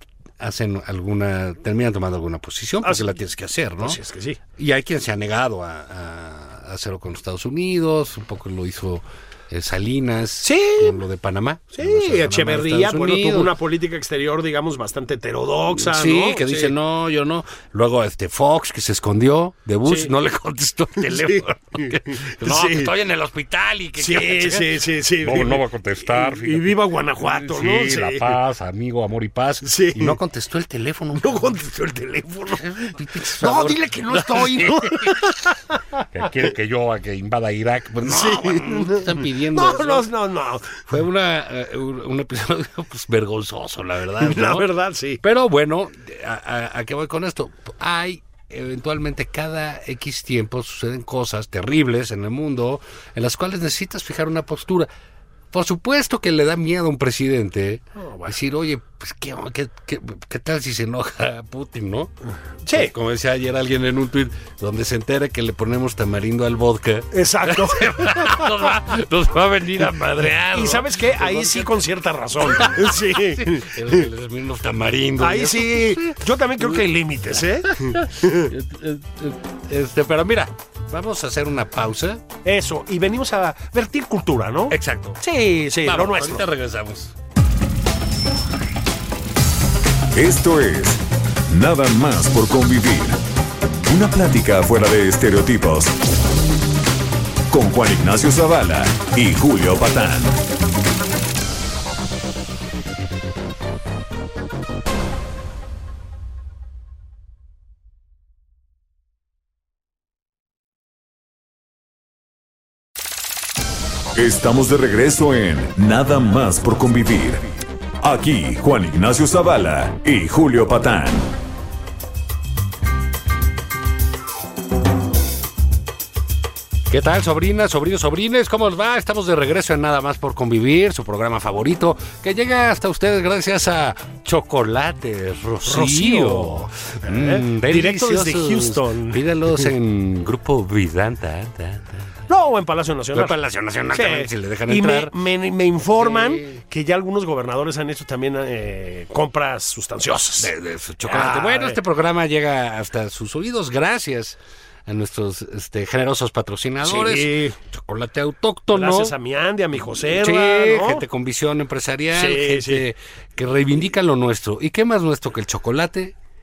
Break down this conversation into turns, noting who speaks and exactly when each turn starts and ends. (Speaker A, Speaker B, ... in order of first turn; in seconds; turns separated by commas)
Speaker A: 0.4-4.0, Speaker B: 3.8-4.4, Speaker A: 4.6-13.5, Speaker B: 10.4-11.0, Speaker B: 11.7-16.7, Speaker A: 15.7-31.6, Speaker B: 19.9-20.1, Speaker B: 21.0-22.9, Speaker B: 24.0-28.4, Speaker B: 29.6-30.2, Speaker B: 31.2-36.3, Speaker A: 32.5-35.2, Speaker A: 36.1-40.1, Speaker B: 38.0-40.8, Speaker A: 40.8-44.7, Speaker B: 44.2-45.2, Speaker A: 45.2-54.9, Speaker A: 55.5-62.1, Speaker B: 58.0-58.4, Speaker B: 62.6-62.9, Speaker A: 62.7-71.8, Speaker B: 67.1-68.7, Speaker B: 70.5-74.1, Speaker A: 72.4-76.8, Speaker B: 75.2-78.5, Speaker A: 77.6-82.2, Speaker B: 82.4-86.4, Speaker A: 84.7-85.2, Speaker A: 85.8-87.1, Speaker C: 90.1-93.2, Speaker C: 93.8-96.0, Speaker C: 97.5-100.4, Speaker C: 114.1-117.5, Speaker C: 118.0-121.3, Speaker A: 126.9-142.2, Speaker B: 135.7-139.7, Speaker B: 142.3-143.3, Speaker A: 143.1-145.1, Speaker B: 143.9-150.5, Speaker A: 146.0-146.6, Speaker A: 150.4-159.1, Speaker B: 151.0-151.8, Speaker B: 156.8-157.6, Speaker B: 158.7-161.0, Speaker A: 160.0-166.1, Speaker B: 162.1-162.8